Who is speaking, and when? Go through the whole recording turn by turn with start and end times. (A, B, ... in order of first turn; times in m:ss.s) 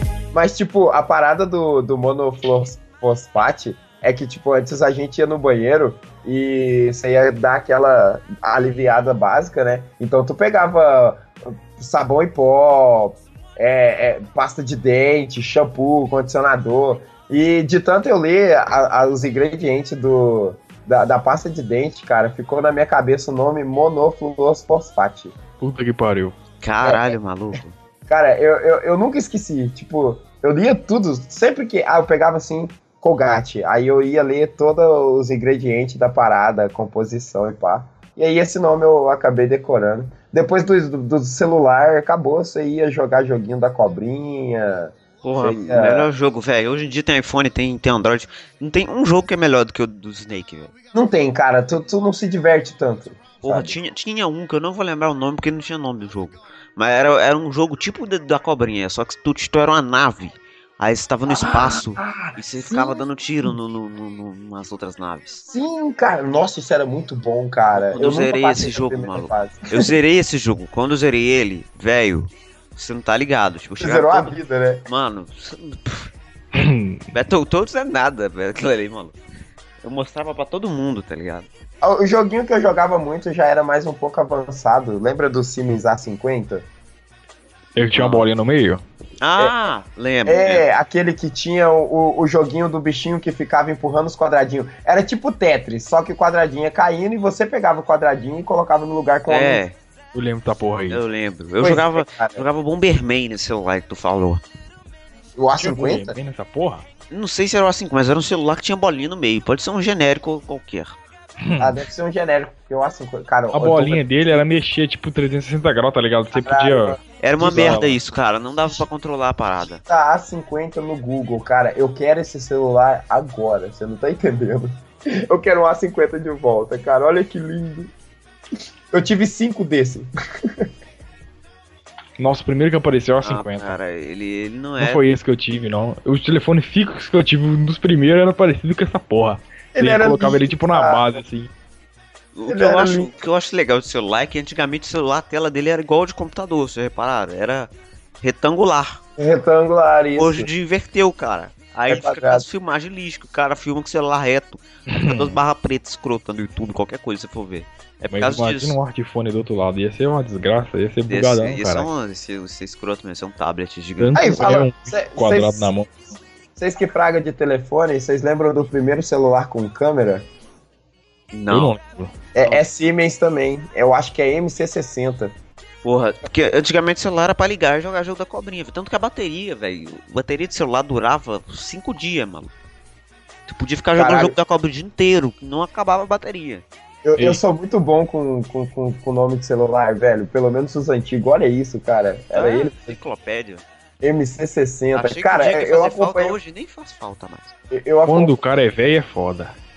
0:00.3-0:25.4 A
0:25.6-0:26.4 B
0:26.6-0:27.7 C
0:26.8-0:27.2 A
0:28.1-0:46.1 A
0:45.2-0:50.7 C
0:50.9-0:53.8 A
0:53.4-1:05.4 C
1:01.3-1:03.5 A
1:05.4-1:09.9 A
1:07.8-1:16.1 C
1:13.8-1:14.8 A
1:16.5-1:17.0 B
1:17.1-1:19.2 C
1:19.8-1:21.5 C
1:21.8-1:26.7 A
1:27.8-1:28.8 B
1:27.9-1:28.2 C
1:29.2-1:30.6 C
1:30.2-1:39.6 A
1:39.3-1:39.8 C
1:40.1-1:41.0 B
1:40.9-1:44.4 C
1:41.6-1:42.4 A
1:45.4-1:46.2 A
1:45.6-1:46.8 B
1:47.1-1:51.0 C
1:51.4-1:51.8 B
1:51.6-1:54.4 A
1:53.5-1:58.0 B
1:56.3-1:57.8 A
1:57.2-1:59.8 C
1:59.8-2:07.9 A
2:08.9-2:10.7 A
2:12.2-2:13.8 B
2:13.2-2:15.0 C
2:14.8-2:21.5 B
2:19.7-2:21.1 A
2:22.3-2:29.0 C
2:22.5-2:23.1 A
2:29.2-2:30.5 A
2:30.2-2:38.8 C
2:31.9-2:32.4 A
2:34.9-2:35.4 B
2:38.1-2:41.9 B
2:41.1-2:44.4 C
2:44.0-2:45.9 B
2:44.2-2:45.7 A
2:46.6-2:50.3 A
2:51.3-2:51.7 C
2:51.5-2:52.1 B
2:52.3-2:55.3 A
2:55.8-3:02.5 C
3:03.5-3:06.6 C
3:03.9-3:04.4 A
3:07.0-3:13.0 A
3:12.3-3:13.6 C
3:14.0-3:16.4 A
3:14.9-3:17.5 C
3:17.7-3:18.4 A
3:18.0-3:19.5 B